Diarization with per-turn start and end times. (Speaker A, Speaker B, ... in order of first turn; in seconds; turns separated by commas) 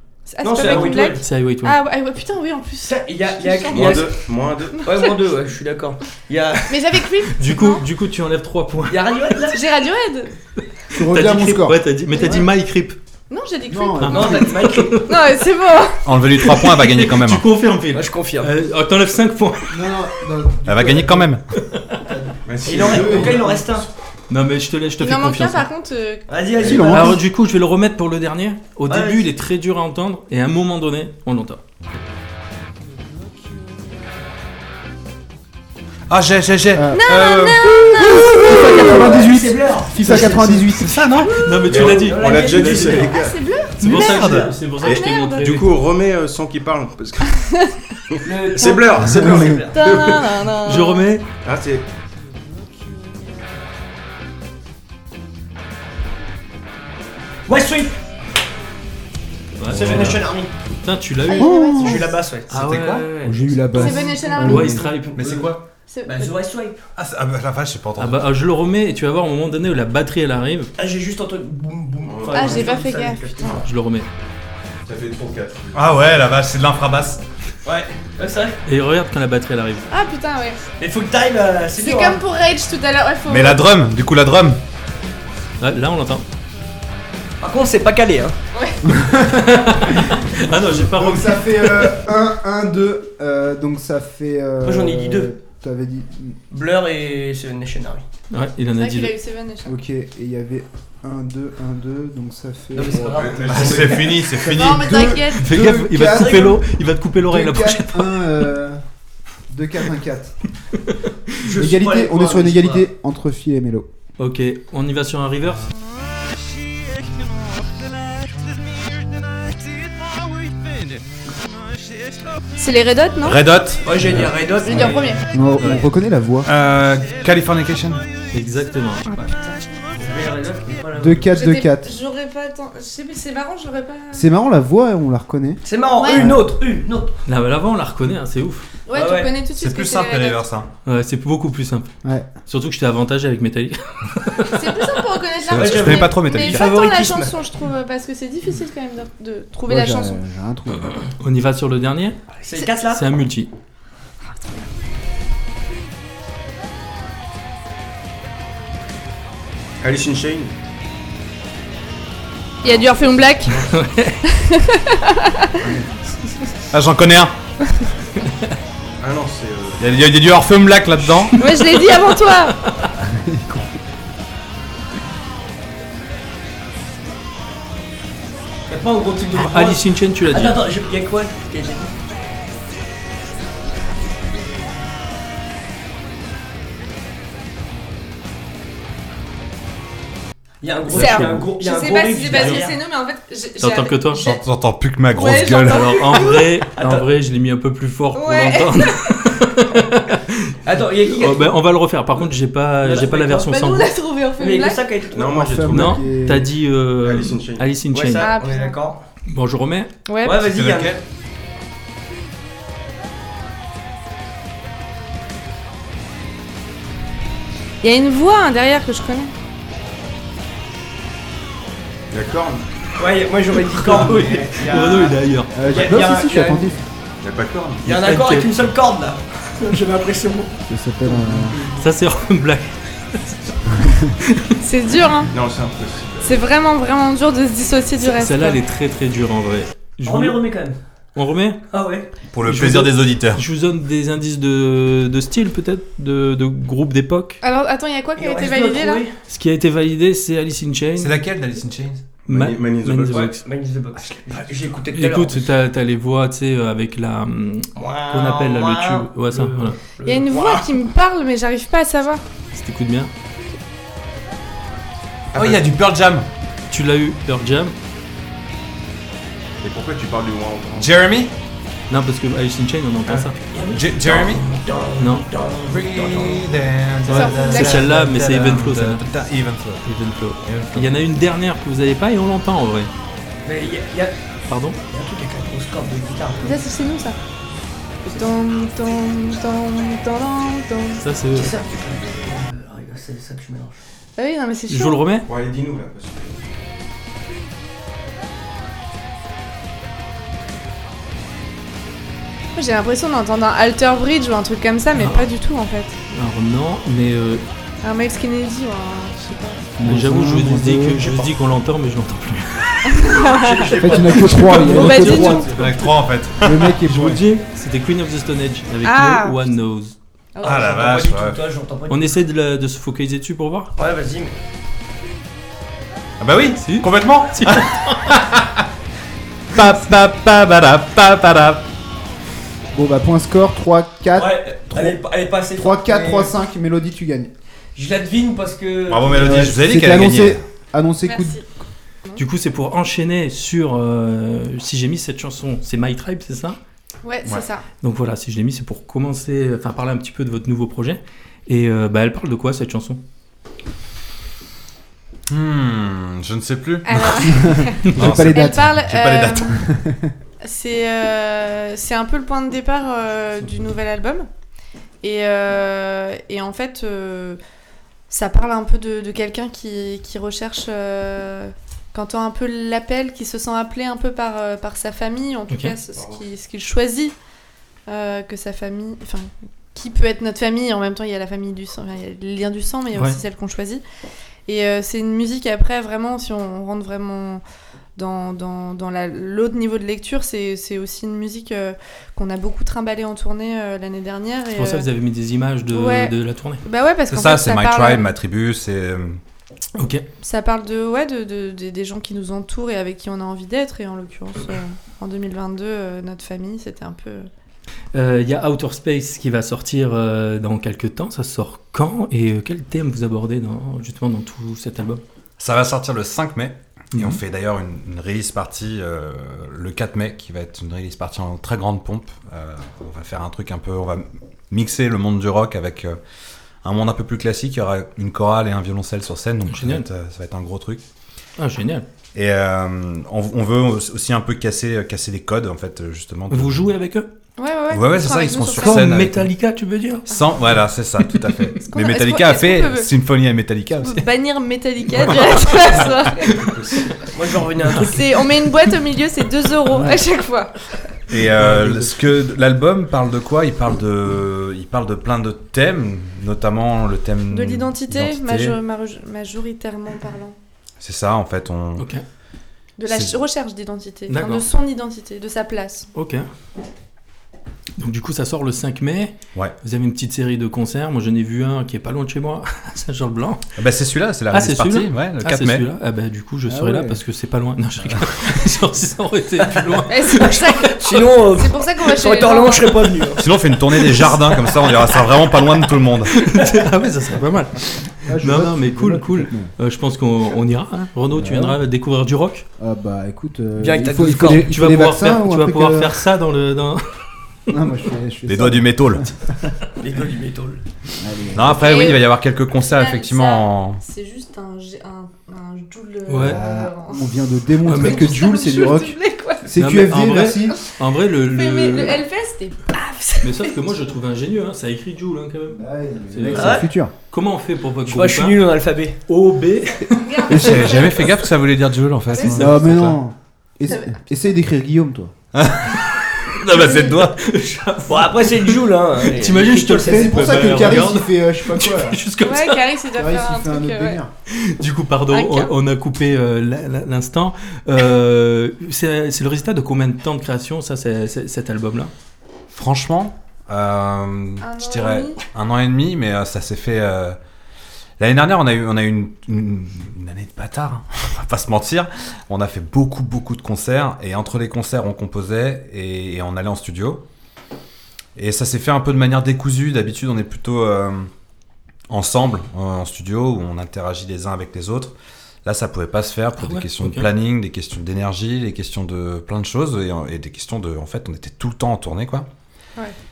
Speaker A: 0.3-4.1, Speaker B: 0.4-1.2, Speaker C: 0.6-1.8, Speaker B: 2.9-6.7, Speaker D: 3.7-5.0, Speaker A: 6.7-7.8, Speaker C: 7.4-9.2, Speaker B: 8.9-9.6, Speaker A: 9.5-10.3, Speaker C: 10.9-13.0, Speaker E: 10.9-11.8, Speaker A: 12.2-12.4, Speaker A: 13.3-16.0, Speaker E: 13.7-14.5, Speaker C: 14.0-15.3, Speaker B: 14.1-15.0, Speaker F: 16.0-17.4, Speaker C: 16.4-19.9, Speaker B: 17.9-18.5, Speaker E: 19.7-21.3, Speaker F: 20.6-21.4, Speaker C: 21.7-22.0, Speaker E: 21.9-23.6, Speaker D: 22.4-23.8, Speaker B: 22.6-23.9, Speaker C: 24.3-25.7, Speaker A: 25.0-26.3, Speaker B: 26.3-27.1, Speaker D: 26.5-26.9, Speaker E: 26.6-27.2, Speaker C: 26.8-31.6, Speaker B: 28.9-29.3, Speaker F: 36.1-39.2, Speaker E: 36.7-37.0, Speaker A: 36.9-39.1, Speaker E: 38.0-41.1, Speaker B: 38.7-40.6, Speaker F: 40.1-41.3, Speaker C: 40.1-43.1, Speaker D: 41.6-43.3, Speaker B: 41.8-43.3, Speaker A: 43.0-44.3, Speaker F: 43.8-44.5, Speaker C: 43.8-45.8, Speaker B: 43.8-44.6, Speaker A: 44.8-45.5, Speaker D: 44.8-47.4, Speaker A: 47.4-47.7, Speaker D: 48.1-50.5, Speaker B: 48.2-50.0, Speaker E: 49.0-49.6, Speaker A: 49.7-51.0, Speaker C: 50.6-51.2, Speaker D: 51.4-51.9, Speaker B: 57.5-58.0, Speaker C: 59.6-60.2, Speaker B: 59.6-60.5, Speaker F: 59.7-60.2, Speaker C: 60.8-65.4, Speaker A: 61.2-62.0, Speaker E: 61.3-62.0, Speaker B: 61.8-63.9, Speaker F: 62.5-63.0, Speaker E: 63.2-65.1, Speaker A: 63.7-64.8, Speaker F: 65.2-65.6, Speaker B: 65.2-66.8, Speaker A: 65.9-66.3, Speaker F: 67.0-68.2, Speaker C: 68.0-70.7, Speaker B: 70.8-73.6, Speaker D: 72.0-72.8, Speaker A: 72.3-73.6, Speaker C: 73.6-74.1, Speaker D: 74.9-75.7, Speaker F: 75.7-77.2, Speaker B: 77.6-78.6, Speaker C: 78.7-79.9, Speaker A: 79.9-80.6, Speaker B: 80.8-82.2, Speaker A: 81.8-83.6, Speaker F: 83.3-84.6, Speaker C: 85.6-86.2, Speaker B: 87.4-88.3, Speaker A: 88.5-88.9, Speaker E: 88.9-96.4, Speaker C: 89.2-91.9, Speaker B: 94.6-95.3, Speaker B: 96.5-98.0, Speaker C: 98.3-99.1, Speaker A: 98.8-99.7, Speaker E: 99.6-106.6, Speaker B: 102.7-104.3, Speaker D: 102.9-104.0, Speaker F: 103.5-105.2, Speaker A: 104.4-105.5, Speaker C: 105.4-108.4, Speaker B: 106.0-106.6, Speaker E: 107.2-108.8, Speaker E: 109.5-110.3, Speaker B: 111.4-112.9, Speaker E: 111.5-113.9, Speaker C: 114.2-115.7, Speaker A: 122.6-123.4, Speaker F: 123.2-123.9, Speaker B: 123.8-125.2, Speaker A: 124.6-125.2, Speaker E: 125.3-126.5, Speaker C: 125.6-125.9, Speaker F: 126.4-128.1, Speaker C: 128.3-129.1, Speaker B: 130.0-131.2, Speaker E: 130.9-131.9, Speaker A: 131.2-134.2, Speaker E: 134.1-135.6, Speaker B: 135.6-137.2, Speaker A: 136.0-136.3, Speaker E: 136.1-136.4, Speaker C: 137.3-138.7, Speaker A: 138.9-140.4, Speaker B: 138.9-139.4, Speaker F: 139.5-140.7, Speaker C: 140.8-141.9, Speaker C: 142.4-145.1, Speaker A: 144.5-150.2, Speaker F: 145.5-146.8, Speaker B: 145.5-147.3, Speaker E: 149.7-151.0, Speaker C: 151.2-152.2, Speaker B: 152.4-153.0, Speaker C: 152.9-153.5, Speaker D: 159.8-160.5, Speaker A: 162.6-163.6, Speaker D: 163.4-163.7, Speaker C: 163.7-164.2, Speaker A: 164.2-165.5, Speaker D: 165.6-165.9, Speaker F: 166.7-167.3, Speaker D: 169.0-169.8, Speaker F: 169.8-171.4, Speaker C: 171.3-172.9, Speaker A: 171.4-172.6, Speaker E: 173.0-173.8, Speaker B: 178.7-181.9, Speaker C: 179.3-180.7, Speaker B: 190.6-192.8, Speaker A: 190.9-194.4, Speaker D: 191.1-191.4, Speaker C: 193.6-194.2, Speaker F: 194.2-195.9, Speaker A: 195.1-196.4, Speaker C: 195.6-203.9, Speaker B: 196.7-197.1, Speaker A: 198.2-199.1, Speaker B: 200.6-201.6, Speaker B: 202.8-203.5, Speaker A: 203.1-204.8, Speaker B: 204.4-205.4, Speaker D: 205.1-206.0, Speaker E: 205.2-206.5, Speaker C: 205.7-208.3, Speaker D: 207.0-207.7, Speaker B: 207.9-209.0, Speaker A: 208.2-208.8, Speaker C: 209.3-209.9, Speaker A: 210.1-210.4, Speaker B: 210.2-211.0, Speaker F: 210.4-211.0, Speaker A: 217.8-219.3, Speaker D: 222.1-222.6, Speaker B: 223.0-226.8, Speaker C: 223.9-225.5, Speaker D: 223.9-224.6, Speaker E: 225.5-226.8, Speaker D: 225.7-226.0, Speaker D: 227.2-227.8, Speaker B: 227.8-230.6, Speaker C: 227.8-228.7, Speaker E: 230.7-231.6, Speaker C: 231.4-234.5, Speaker A: 234.6-235.3, Speaker D: 235.3-236.4, Speaker A: 236.2-238.6, Speaker C: 238.0-240.4, Speaker B: 240.0-240.8, Speaker C: 241.2-241.6, Speaker B: 241.7-242.1, Speaker F: 242.3-243.4, Speaker C: 242.4-247.4, Speaker A: 247.4-249.0, Speaker B: 248.2-249.1, Speaker C: 249.3-251.2, Speaker F: 250.9-252.2, Speaker D: 252.3-253.3, Speaker C: 252.3-253.4, Speaker B: 253.1-255.4, Speaker C: 254.0-259.8, Speaker B: 257.8-260.7, Speaker A: 260.0-262.2, Speaker C: 262.5-263.1, Speaker D: 265.3-265.7, Speaker F: 265.3-266.3, Speaker C: 266.7-267.7, Speaker D: 269.6-270.9, Speaker F: 270.8-271.3, Speaker C: 271.9-273.4, Speaker F: 273.1-274.4, Speaker B: 273.4-276.6, Speaker C: 275.0-275.2, Speaker F: 275.7-279.9, Speaker C: 277.1-279.1, Speaker A: 277.1-277.9, Speaker C: 279.8-282.9, Speaker F: 280.4-280.9, Speaker B: 283.4-284.1, Speaker C: 284.5-284.8, Speaker B: 284.9-286.6, Speaker A: 286.4-287.1, Speaker A: 288.1-291.0, Speaker C: 291.0-291.5, Speaker B: 291.3-293.8, Speaker A: 294.2-295.0, Speaker C: 294.7-295.3, Speaker D: 295.2-296.4, Speaker A: 302.6-305.9, Speaker C: 304.9-305.3, Speaker C: 306.1-307.4, Speaker A: 307.8-309.6, Speaker E: 309.8-311.1, Speaker C: 309.8-313.3, Speaker A: 312.9-313.6, Speaker D: 313.5-314.5, Speaker B: 313.6-314.7, Speaker E: 313.8-315.5, Speaker C: 313.9-315.9, Speaker A: 314.7-315.5, Speaker D: 315.2-315.6, Speaker F: 315.5-316.7, Speaker E: 316.4-317.2, Speaker C: 316.9-319.9, Speaker A: 318.8-319.4, Speaker A: 320.3-320.7, Speaker B: 320.4-322.1, Speaker F: 320.4-321.4, Speaker C: 321.9-323.7, Speaker B: 323.8-324.3, Speaker F: 326.2-328.6, Speaker C: 326.6-328.0, Speaker F: 329.5-331.6, Speaker E: 332.7-335.0, Speaker B: 334.1-336.3, Speaker E: 335.5-337.3, Speaker B: 337.8-339.6, Speaker F: 338.9-340.4, Speaker E: 339.1-341.4, Speaker A: 341.1-341.4, Speaker C: 342.2-346.6, Speaker A: 347.0-347.6, Speaker C: 347.8-353.0, Speaker F: 355.3-359.6, Speaker A: 356.8-359.6, Speaker E: 357.2-358.7, Speaker E: 359.5-360.1, Speaker A: 360.4-364.3, Speaker A: 365.0-367.4, Speaker A: 368.1-377.1, Speaker D: 375.9-376.2, Speaker A: 377.9-383.8, Speaker A: 384.5-387.4, Speaker A: 387.9-394.9, Speaker C: 394.6-396.6, Speaker A: 395.7-398.1, Speaker F: 397.1-399.2, Speaker C: 399.8-400.0, Speaker A: 400.2-407.3, Speaker C: 407.9-415.0, Speaker F: 415.4-426.0, Speaker C: 416.9-417.2, Speaker F: 426.6-430.8, Speaker C: 429.5-429.9, Speaker C: 431.4-431.9, Speaker F: 432.1-436.7, Speaker C: 436.3-437.1, Speaker A: 437.4-438.8, Speaker F: 437.7-439.3, Speaker C: 438.5-440.0, Speaker F: 440.1-444.1, Speaker C: 441.1-441.5, Speaker A: 441.7-442.9, Speaker A: 443.8-446.3, Speaker D: 445.7-447.0, Speaker C: 446.2-446.6, Speaker B: 447.1-448.0, Speaker C: 447.4-448.7, Speaker A: 447.7-450.5, Speaker C: 449.6-450.0, Speaker F: 451.1-458.6, Speaker C: 451.1-452.0, Speaker A: 457.3-460.4, Speaker F: 460.8-461.9, Speaker C: 461.8-462.0, Speaker A: 462.8-465.9, Speaker F: 462.9-463.1, Speaker C: 464.1-464.5, Speaker C: 465.9-466.2, Speaker C: 467.8-473.4, Speaker F: 473.6-475.6, Speaker C: 474.3-481.3, Speaker E: 476.5-477.0, Speaker A: 479.9-480.8, Speaker B: 480.8-483.2, Speaker A: 481.3-483.1, Speaker F: 483.2-486.2, Speaker C: 483.7-484.6, Speaker C: 486.1-492.4, Speaker E: 488.1-489.5, Speaker E: 491.1-491.6, Speaker E: 492.6-496.0, Speaker B: 493.6-494.5, Speaker C: 494.4-496.8, Speaker E: 497.5-499.5, Speaker F: 498.3-499.1, Speaker B: 499.8-500.6, Speaker E: 501.0-501.9, Speaker F: 501.3-503.8, Speaker A: 501.6-509.4, Speaker C: 506.1-506.4, Speaker E: 506.2-510.6, Speaker C: 507.6-508.2, Speaker C: 509.6-512.0, Speaker A: 511.3-513.8, Speaker C: 513.2-518.4, Speaker E: 515.5-516.9, Speaker B: 516.3-516.7, Speaker B: 517.8-519.0, Speaker C: 519.1-520.4, Speaker A: 519.9-521.1, Speaker F: 520.3-523.0, Speaker A: 522.1-522.6, Speaker E: 522.2-525.1, Speaker A: 523.7-524.0, Speaker F: 525.3-527.2, Speaker C: 526.2-532.6, Speaker B: 527.8-530.8, Speaker E: 529.8-532.0, Speaker A: 532.2-534.0, Speaker E: 532.9-534.1, Speaker C: 534.3-541.9, Speaker A: 535.1-535.5, Speaker F: 542.5-547.2, Speaker A: 544.4-545.2, Speaker F: 548.0-557.0, Speaker F: 558.1-561.1, Speaker F: 561.9-572.3, Speaker C: 566.4-567.1